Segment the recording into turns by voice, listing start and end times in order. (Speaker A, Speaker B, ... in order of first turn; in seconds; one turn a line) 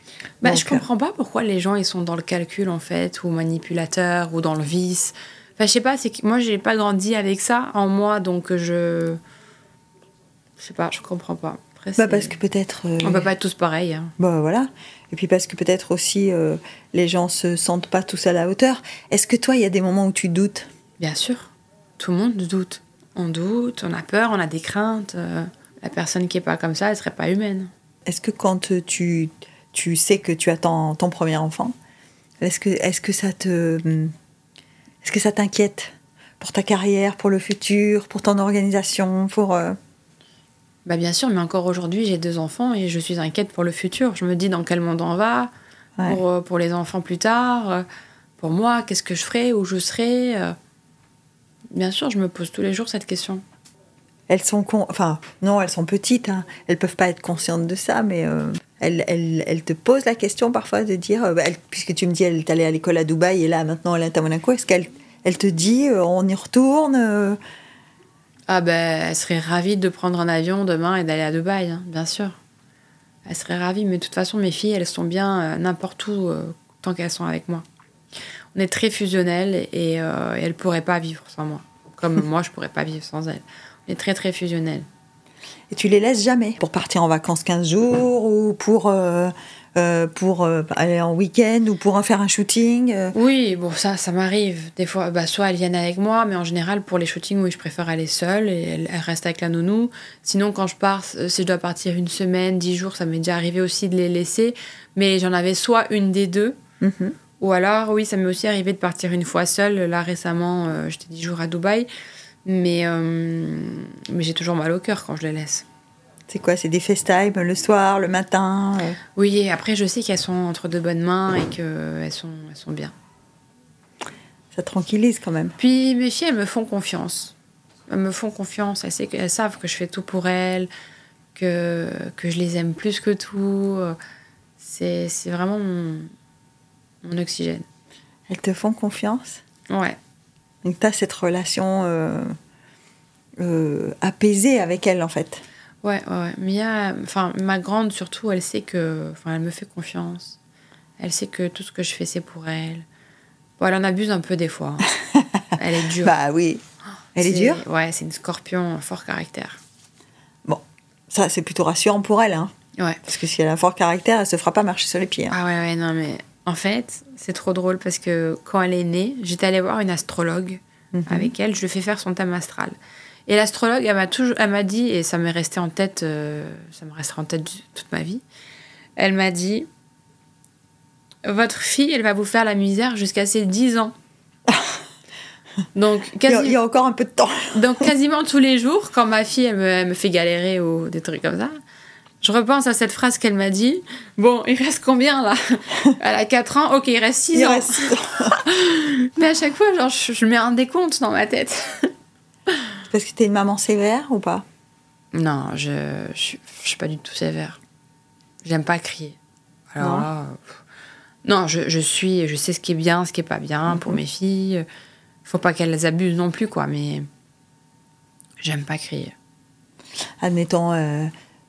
Speaker A: 0.4-9.2
Speaker B: 0.4-0.8
Speaker A: 10.6-12.3
Speaker B: 12.0-13.3
Speaker A: 13.0-14.2
Speaker B: 14.2-20.7
Speaker A: 21.0-27.7
Speaker B: 28.1-31.8
Speaker B: 32.4-34.1
Speaker B: 35.0-39.8
Speaker A: 40.9-45.5
Speaker A: 46.1-47.9
Speaker A: 48.4-50.6
Speaker A: 51.7-53.4
Speaker B: 54.3-67.4
Speaker A: 68.5-72.4
Speaker A: 73.3-77.7
Speaker A: 78.5-84.9
Speaker B: 85.7-93.2
Speaker A: 93.1-106.6
Speaker B: 106.8-107.2
Speaker A: 107.4-111.9
Speaker A: 112.5-115.7
Speaker B: 116.3-119.0
Speaker A: 119.2-122.9
Speaker B: 124.5-125.6
Speaker A: 125.6-127.3
Speaker A: 127.9-130.7
Speaker A: 131.3-134.0
Speaker A: 134.6-136.1
Speaker A: 137.0-137.7
Speaker B: 138.3-139.4
Speaker A: 139.7-140.0
Speaker B: 140.6-142.4
Speaker B: 143.4-145.4
Speaker A: 145.8-150.4
Speaker A: 151.0-152.9
Speaker A: 153.6-154.9
Speaker B: 155.1-155.4
Speaker A: 155.6-156.1
Speaker B: 156.0-156.6
Speaker B: 157.2-157.6
Speaker A: 157.2-159.6
Speaker B: 160.5-162.5
Speaker B: 163.1-165.3
Speaker A: 165.3-172.8
Speaker B: 170.9-171.3
Speaker A: 173.3-178.2
Speaker A: 179.0-179.7
Speaker A: 181.2-183.9
Speaker B: 184.5-184.8
Speaker A: 185.8-186.6
Speaker B: 186.3-187.8
Speaker A: 187.5-191.6
Speaker A: 192.2-201.9
Speaker B: 197.3-198.4
Speaker B: 202.9-204.4
Speaker A: 205.1-207.6
Speaker A: 208.4-209.2
Speaker A: 209.7-210.6
Speaker B: 209.8-210.1
Speaker A: 211.2-214.7
Speaker B: 213.7-214.0
Speaker A: 215.2-217.1
Speaker A: 218.4-219.1
Speaker B: 220.2-221.1